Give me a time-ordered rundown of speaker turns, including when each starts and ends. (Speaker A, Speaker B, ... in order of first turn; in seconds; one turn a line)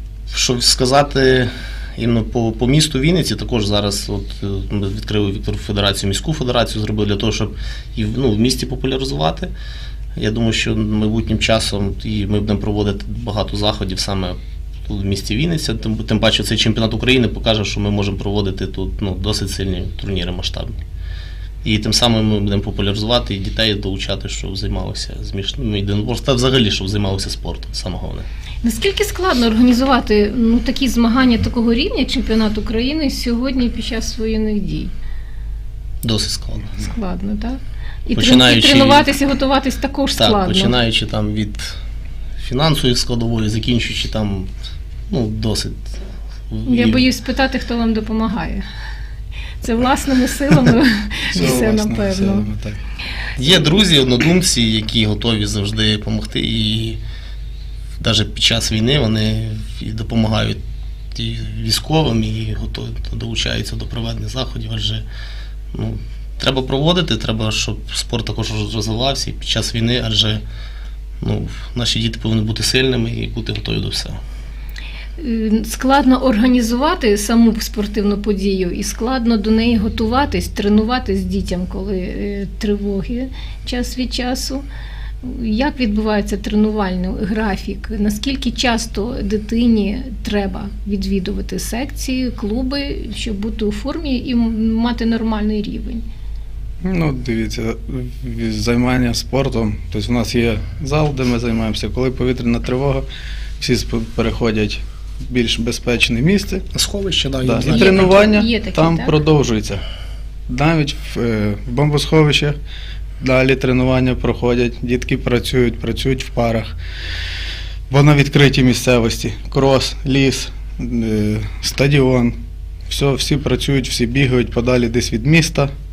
Speaker A: 0.3-9.5
Speaker A: 10.2-20.8
Speaker A: 21.6-28.3
Speaker B: 28.6-34.9
Speaker A: 36.0-36.8
Speaker B: 36.8-40.8
Speaker A: 38.2-39.1
Speaker A: 40.1-41.8
Speaker A: 42.4-44.5
Speaker A: 45.1-46.0
Speaker A: 46.5-47.0
Speaker B: 46.7-48.6
Speaker B: 49.6-52.5
Speaker C: 51.3-52.8
Speaker A: 53.4-57.0
Speaker A: 58.0-60.6
Speaker A: 61.1-65.0
Speaker A: 65.7-70.4
Speaker A: 71.2-74.2
Speaker B: 75.2-84.7
Speaker B: 85.2-96.0
Speaker C: 96.8-103.0
Speaker C: 103.6-106.7
Speaker A: 106.7-108.2
Speaker C: 107.4-109.8
Speaker B: 107.7-109.2
Speaker C: 110.5-112.6
Speaker C: 113.2-116.7
Speaker C: 117.9-122.3
Speaker C: 122.9-125.7